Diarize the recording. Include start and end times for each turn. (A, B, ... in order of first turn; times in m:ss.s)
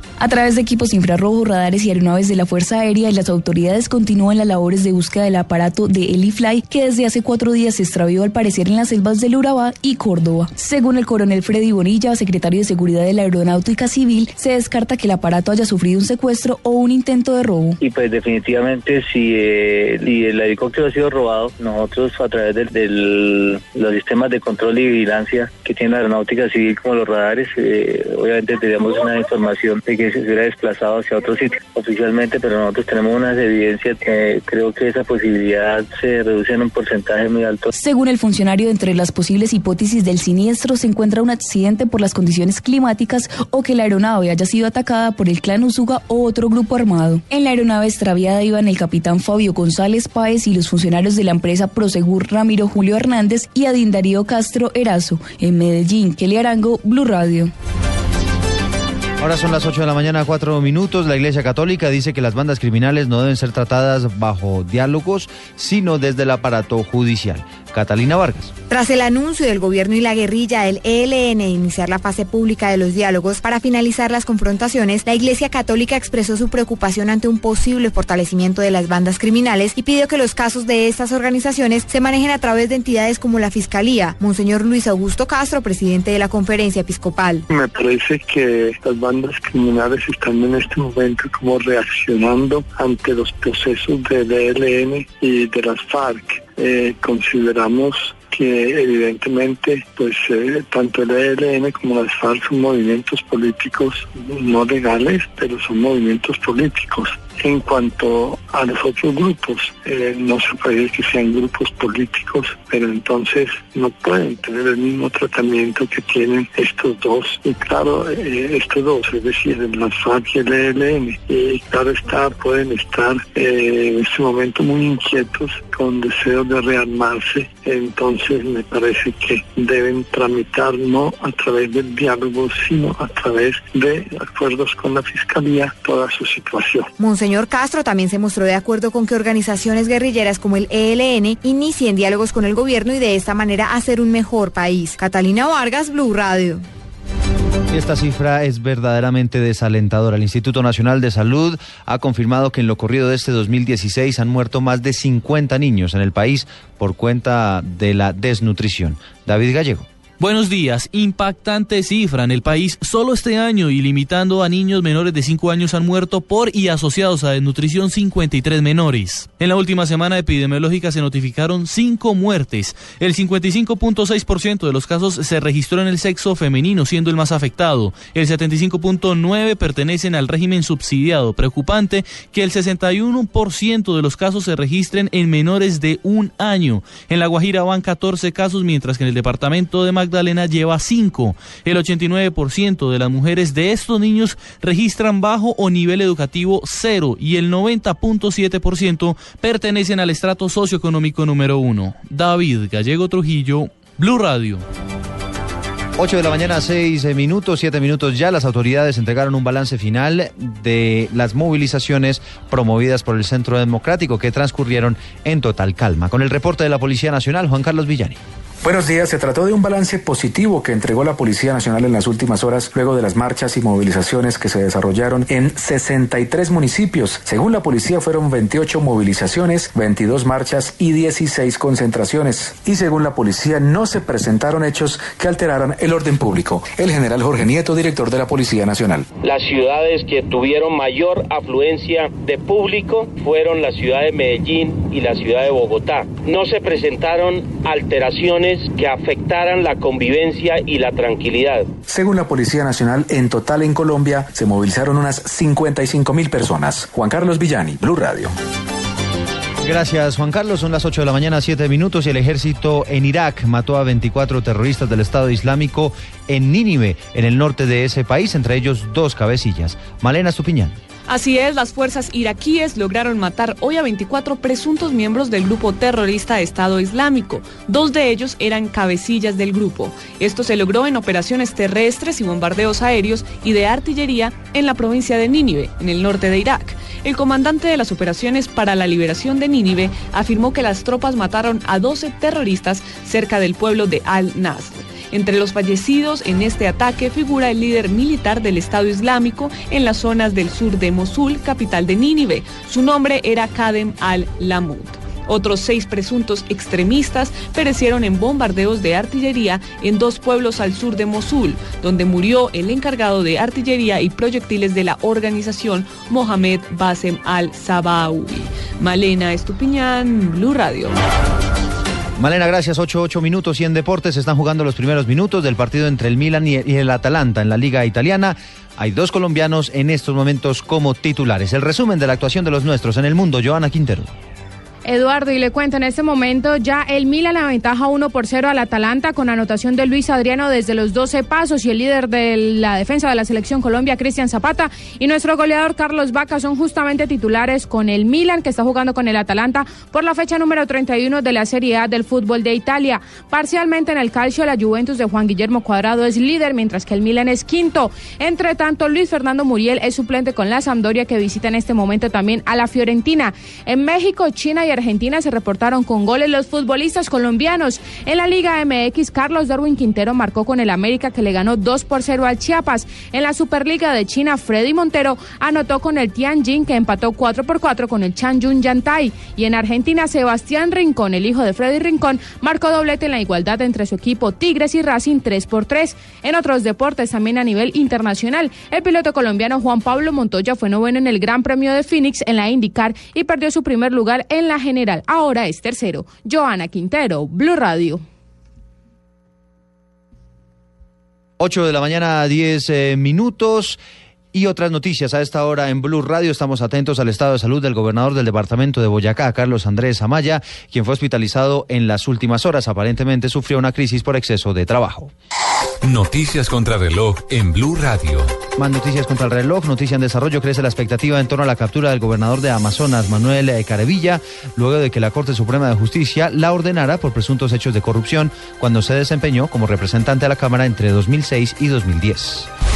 0:00.2-0:17.8 A
0:17.8-0:37.7 B
0:37.7-0:57.5 A
0:59.2-1:08.5 C
1:08.7-1:27.4 D
1:27.5-2:16.9 E
2:17.0-2:26.6 D
2:27.7-2:39.9 C
2:40.2-3:24.6 F
3:26.0-3:38.2 C
3:38.6-3:59.1 G
3:59.2-4:11.7 H
4:11.9-4:18.3 G
4:19.6-4:30.8 C
4:31.1-5:21.0 I
5:22.2-5:34.1 C
5:34.8-6:38.0 J
6:41.4-6:43.8 C
6:44.3-6:55.1 C
6:55.8-6:58.4 K
6:58.6-7:12.5 C